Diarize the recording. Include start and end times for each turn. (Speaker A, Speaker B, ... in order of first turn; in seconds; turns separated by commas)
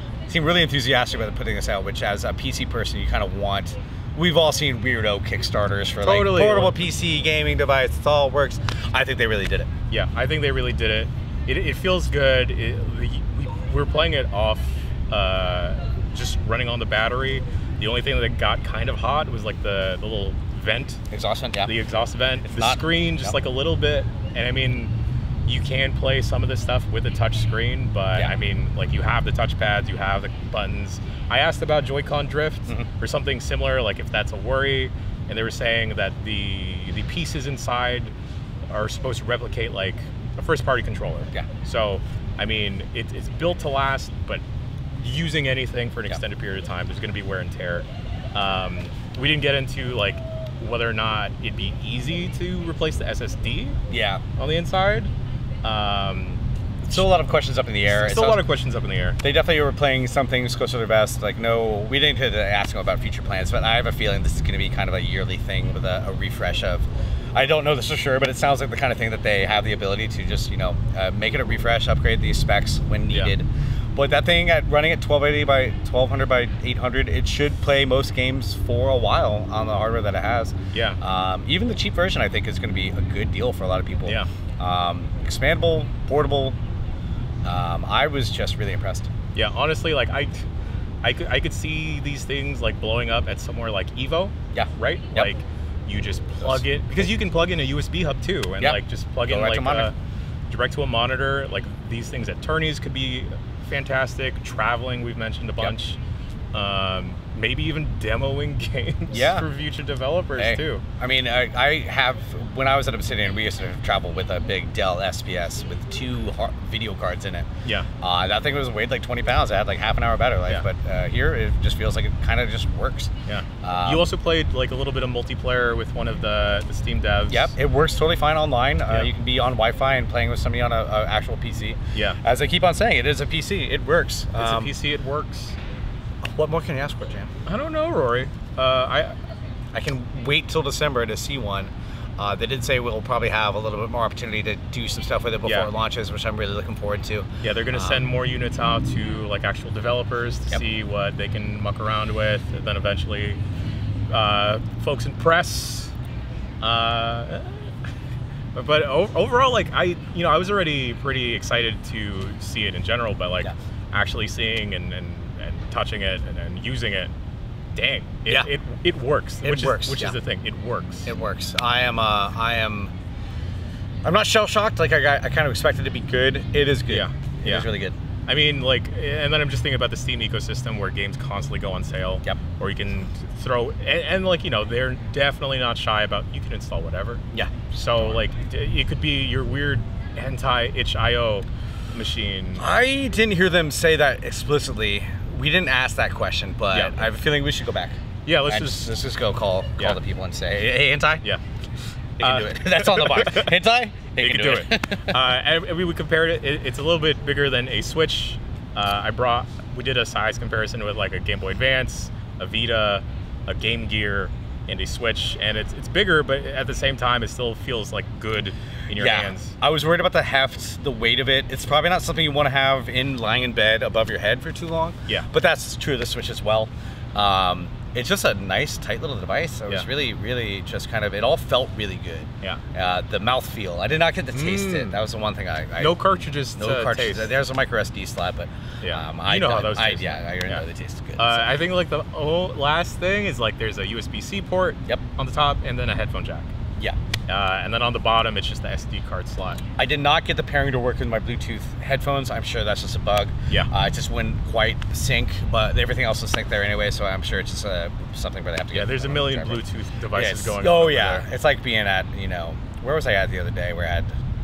Speaker A: 0.3-9.7, Speaker B: 6.0-6.8, Speaker B: 9.9-21.0, Speaker A: 21.1-21.8, Speaker B: 21.7-24.9, Speaker A: 22.4-23.4, Speaker B: 25.5-38.1, Speaker B: 38.7-44.4, Speaker B: 45.0-53.8, Speaker A: 53.9-54.2, Speaker B: 54.4-55.1, Speaker B: 55.6-56.4, Speaker A: 56.8-58.4, Speaker B: 57.9-59.2, Speaker A: 59.2-86.6, Speaker B: 80.7-81.0, Speaker A: 87.4-89.1, Speaker B: 89.3-90.5, Speaker B: 91.0-99.9, Speaker A: 94.5-95.3, Speaker A: 98.6-99.9, Speaker B: 100.5-106.0, Speaker B: 106.5-110.8, Speaker A: 109.1-109.5, Speaker A: 110.4-117.5, Speaker A: 118.0-124.1, Speaker B: 123.3-127.5, Speaker A: 127.3-134.7, Speaker B: 134.3-135.6, Speaker A: 136.2-137.3, Speaker B: 137.5-139.2, Speaker A: 139.7-148.1, Speaker B: 145.4-145.7, Speaker B: 147.4-153.4, Speaker B: 154.1-155.9, Speaker B: 156.6-157.7, Speaker B: 158.6-167.1, Speaker B: 167.8-171.1, Speaker A: 169.4-170.2, Speaker A: 171.1-172.9, Speaker A: 174.0-177.9, Speaker B: 176.9-177.7, Speaker B: 178.3-187.2, Speaker A: 187.3-188.2, Speaker B: 187.7-192.7, Speaker A: 192.6-201.3, Speaker B: 198.3-198.9, Speaker A: 202.2-205.2, Speaker B: 202.2-203.5, Speaker B: 204.2-219.5, Speaker A: 218.9-236.0, Speaker B: 234.3-235.0, Speaker B: 235.8-237.3, Speaker A: 236.6-241.5, Speaker B: 238.8-240.6, Speaker B: 241.2-246.5, Speaker B: 247.3-249.6, Speaker A: 249.8-259.6, Speaker B: 258.7-261.3, Speaker A: 260.1-264.1